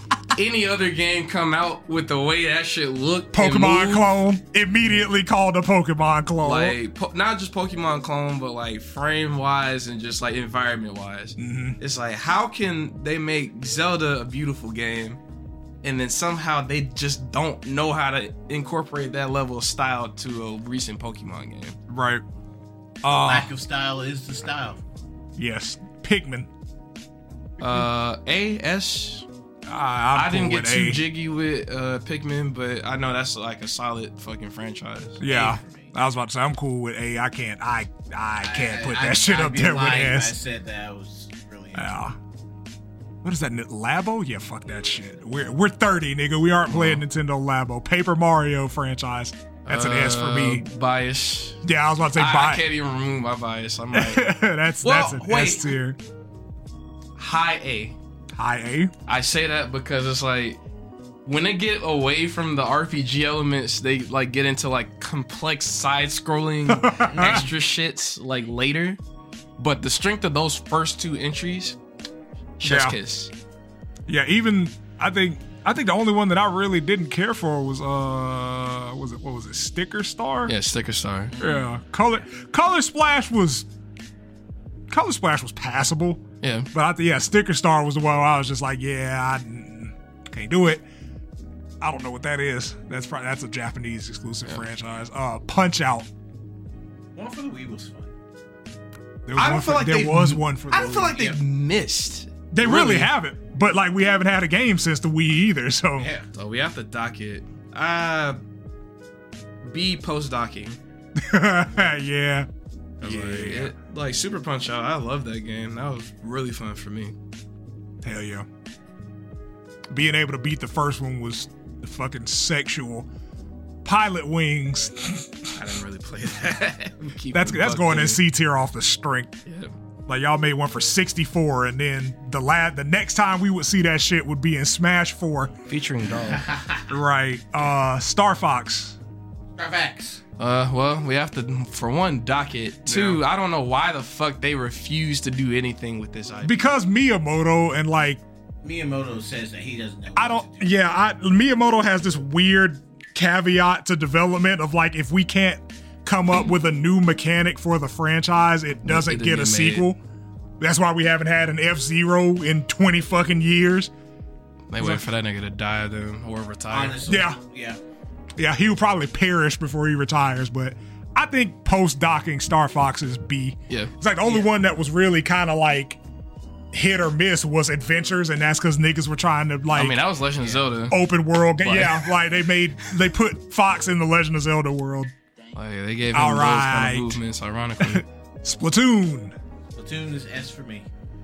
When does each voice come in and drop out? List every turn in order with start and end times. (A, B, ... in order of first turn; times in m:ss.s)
0:00.4-0:04.1 A
0:03.3-0:06.8 B
0:06.4-0:15.2 A
0:11.4-0:11.8 B
0:15.8-0:21.8 A
0:21.9-0:22.2 B
0:23.0-0:23.5 B
0:23.1-0:24.8 C
0:25.4-0:26.5 B
0:27.6-0:29.3 A
0:29.7-0:31.0 B
0:30.1-0:35.2 A
0:35.2-0:40.4 B
0:35.2-0:35.9 C
0:38.4-0:42.1 C
0:41.8-0:42.2 B
0:43.2-0:50.6 B
0:46.7-0:47.0 A
0:49.7-0:51.6 A
0:51.6-0:52.7 B
0:52.2-0:54.3 A
0:53.9-0:56.0 B
0:54.8-0:55.8 A
0:57.2-0:58.0 A
0:58.4-0:58.9 B
0:59.1-1:00.6 A
1:01.2-1:09.0 A
1:06.7-1:07.5 B
1:07.1-1:07.5 C
1:09.6-1:11.8 A
1:12.6-1:13.3 A
1:12.6-1:13.0 B
1:14.1-1:20.5 B
1:20.5-1:21.4 A
1:21.3-1:21.8 C
1:21.4-1:23.7 B
1:24.9-1:30.8 B
1:26.4-1:26.7 A
1:31.8-1:36.1 B
1:37.2-1:38.1 C
1:39.3-1:41.2 B
1:39.4-1:43.1 A
1:42.5-1:46.1 B
1:46.0-1:46.3 C
1:46.3-1:48.4 A
1:49.6-1:50.8 A
1:51.2-1:52.5 B
1:53.0-1:53.7 B
1:53.0-1:57.2 A
1:58.0-1:58.5 B
1:59.9-2:03.1 B
2:03.8-2:05.6 B
2:05.6-2:08.2 A
2:07.3-2:09.4 B
2:09.5-2:09.7 A
2:10.1-2:15.5 B
2:15.7-2:16.5 A
2:16.1-2:16.9 C
2:16.9-2:19.0 B
2:19.6-2:20.2 C
2:20.4-2:26.6 A
2:22.9-2:23.2 B
2:26.4-2:28.2 B
2:28.6-2:30.7 C
2:30.2-2:40.0 B
2:38.8-2:39.9 A
2:40.6-2:43.9 B
2:44.7-2:47.0 A
2:44.8-2:45.0 B
2:46.7-2:47.8 C
2:47.1-2:47.4 B
2:48.4-2:56.0 B
2:56.7-3:00.0 B
2:59.7-3:01.0 A
3:00.9-3:05.1 B
3:01.6-3:02.2 A
3:05.6-3:08.0 A
3:06.1-3:07.2 B
3:07.8-3:09.3 B
3:09.8-3:10.9 C